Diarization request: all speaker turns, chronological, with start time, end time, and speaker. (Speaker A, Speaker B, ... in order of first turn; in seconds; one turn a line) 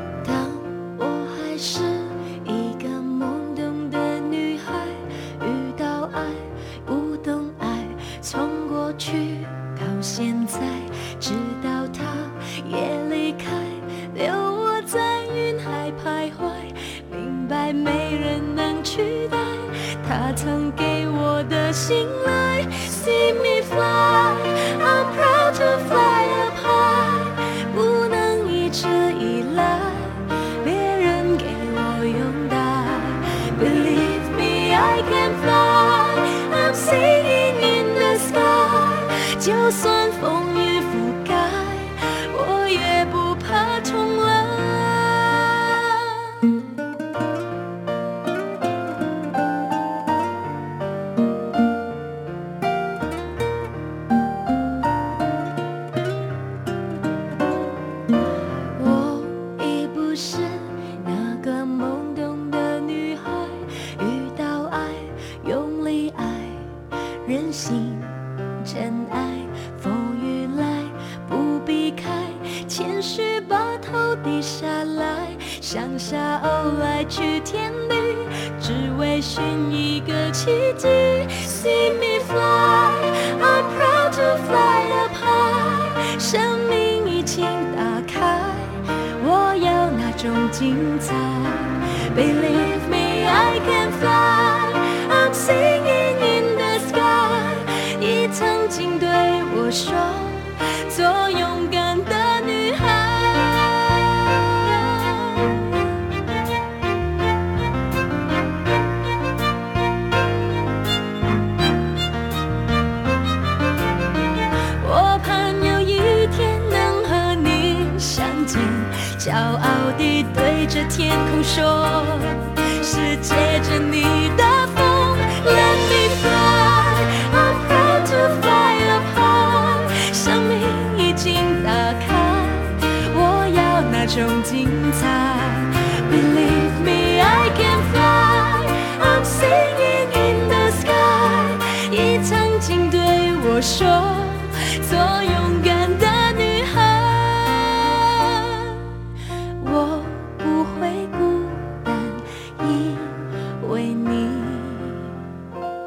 Speaker A: 0.2-46.5
Speaker A: 58.7-106.0
Speaker A: 114.8-148.9
Speaker A: 149.6-155.3